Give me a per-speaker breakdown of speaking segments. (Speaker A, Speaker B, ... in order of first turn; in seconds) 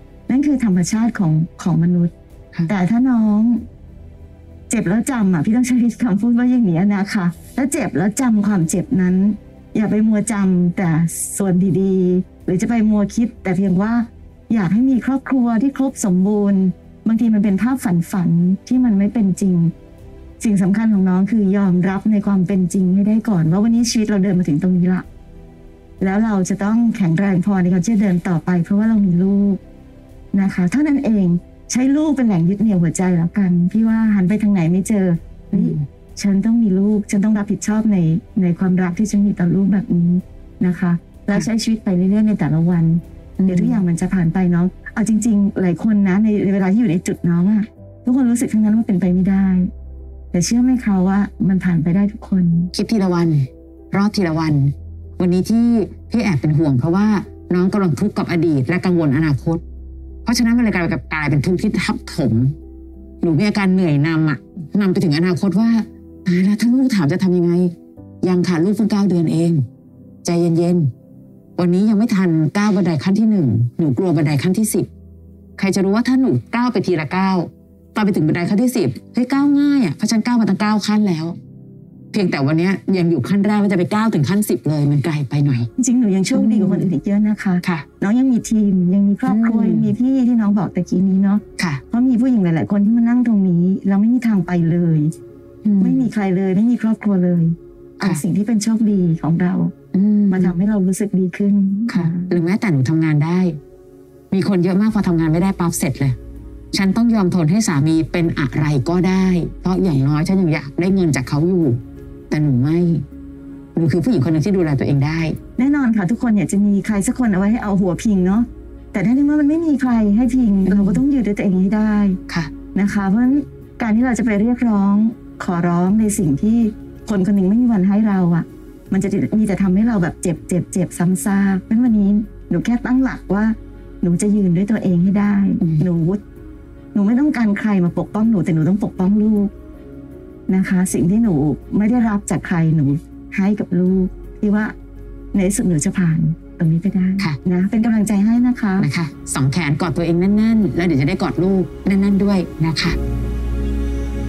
Speaker A: 0.3-2.1, 2.7-3.6, 4.7-19.7, 20.4-25.1, 26.0-29.6, 30.3-49.7, 50.3-52.7, 85.8-95.1, 95.8-99.7, 100.3-102.3, 115.6-122.2, 122.7-136.2, 136.9-139.5, 140.5-144.8, 145.3-148.9
Speaker B: 35.5-35.9, 43.4-43.8, 52.7-59.6, 60.2-62.5, 63.2-69.7, 70.2-70.9, 71.6-74.9, 75.6-81.4, 82.1-85.7, 86.3-86.9, 89.3-89.9, 95.6-96.1, 99.9-100.6, 101.9-103.6, 104.3-106.2, 106.7-113.0, 113.8-115.4, 120.7-121.0, 148.8-153.0